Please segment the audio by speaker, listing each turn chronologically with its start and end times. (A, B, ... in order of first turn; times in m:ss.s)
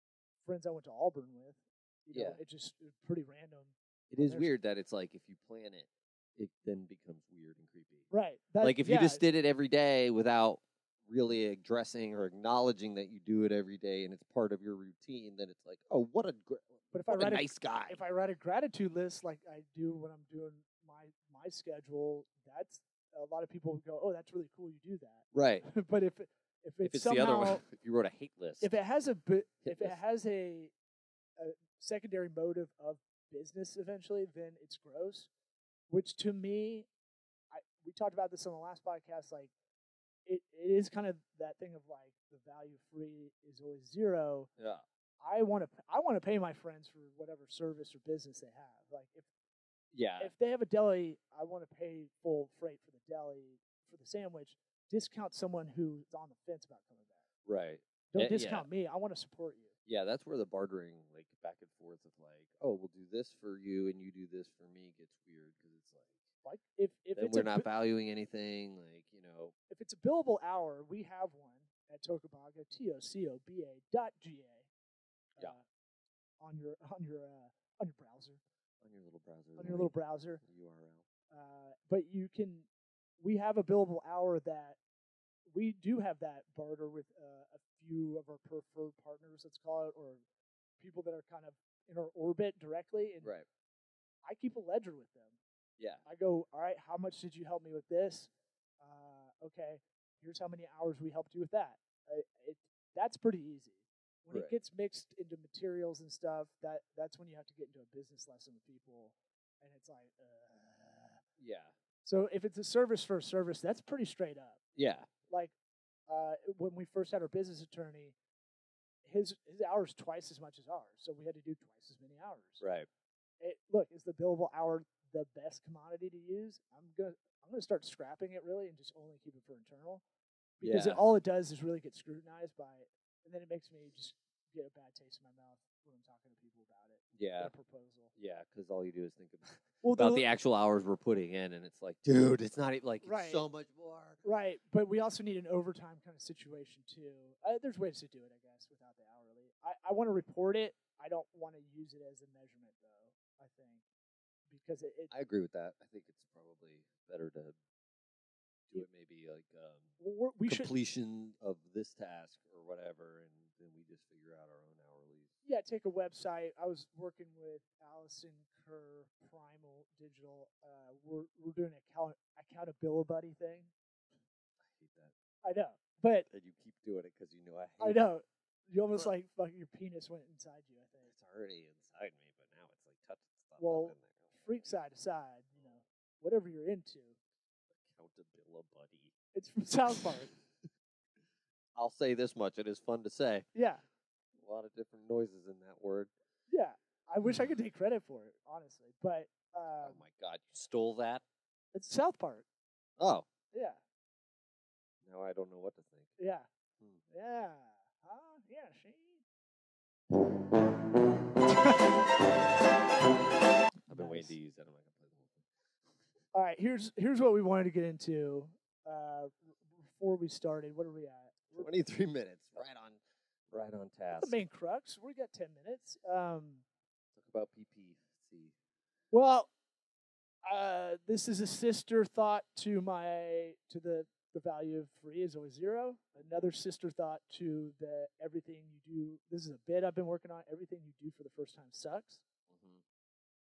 0:00.4-0:04.5 A
0:02.1-0:02.4 B
0:04.1-0:08.1 B
0:08.1-0:09.2 A
0:08.6-0:18.0 B
0:16.9-0:27.6 A
0:25.3-0:25.7 B
0:26.8-0:28.7 B
0:28.6-0:30.7 A
0:29.6-0:30.0 B
0:31.4-0:35.3 A
0:35.9-0:36.9 A
0:37.5-0:39.5 A
0:40.3-0:44.5 A
0:44.6-0:44.8 B
0:45.2-0:49.3 A
0:49.9-0:50.3 B
0:50.2-0:57.2 A
0:57.5-0:58.7 B
0:58.1-0:59.7 A
0:59.9-1:06.2 B
1:06.4-1:07.7 A
1:07.2-1:09.5 B
1:09.7-1:14.7 A
1:15.4-1:15.6 A
1:16.4-1:18.4 A
1:18.8-1:21.0 B
1:19.6-1:20.4 A
1:21.3-1:22.7 A
1:23.2-1:24.8 A
1:25.5-1:30.2 A
1:30.8-1:33.3 A
1:34.2-1:35.4 A
1:35.8-1:36.0 B
1:36.0-1:38.3 A
1:38.8-1:51.2 A
1:51.4-1:51.8 B
1:52.0-1:54.6 A
1:54.8-1:55.1 B
1:55.3-1:55.5 A
1:56.1-1:58.2 A
1:59.0-2:02.6 A
2:02.6-2:02.9 B
2:03.4-2:10.0 A
2:10.6-2:18.1 A
2:10.6-2:11.0 B
2:17.2-2:17.5 B
2:18.2-2:24.2 B
2:19.8-2:20.2 A
2:23.0-2:23.4 A
2:24.2-2:33.8 A
2:34.5-2:35.1 A
2:35.1-2:37.6 B
2:38.7-2:39.9 B
2:40.0-2:40.7 A
2:40.5-2:45.3 B
2:45.4-2:53.7 A
2:54.6-2:55.1 B
2:55.4-2:56.3 A
2:56.3-2:58.0 B
2:57.8-3:01.1 A
3:01.1-3:04.3 B
3:03.6-3:07.2 A
3:07.7-3:09.1 B
3:09.3-3:10.3 A
3:11.8-3:13.5 B
3:13.5-3:13.8 A
3:14.4-3:16.1 B
3:16.5-3:20.0 A
3:19.8-3:21.2 B
3:21.7-3:22.4 A
3:23.0-3:23.3 B
3:23.5-3:23.8 A
3:25.0-3:26.1 B
3:26.2-3:26.5 A
3:27.1-3:29.2 A
3:31.5-3:31.8 A
3:33.9-3:35.4 B
3:33.9-3:34.3 A
3:36.3-3:41.7 A
3:41.5-3:43.0 B
3:43.5-3:44.4 B
3:44.2-3:46.6 A
3:47.1-3:48.5 B
3:49.1-3:49.5 A
3:50.4-4:02.2 A
4:02.5-4:02.8 B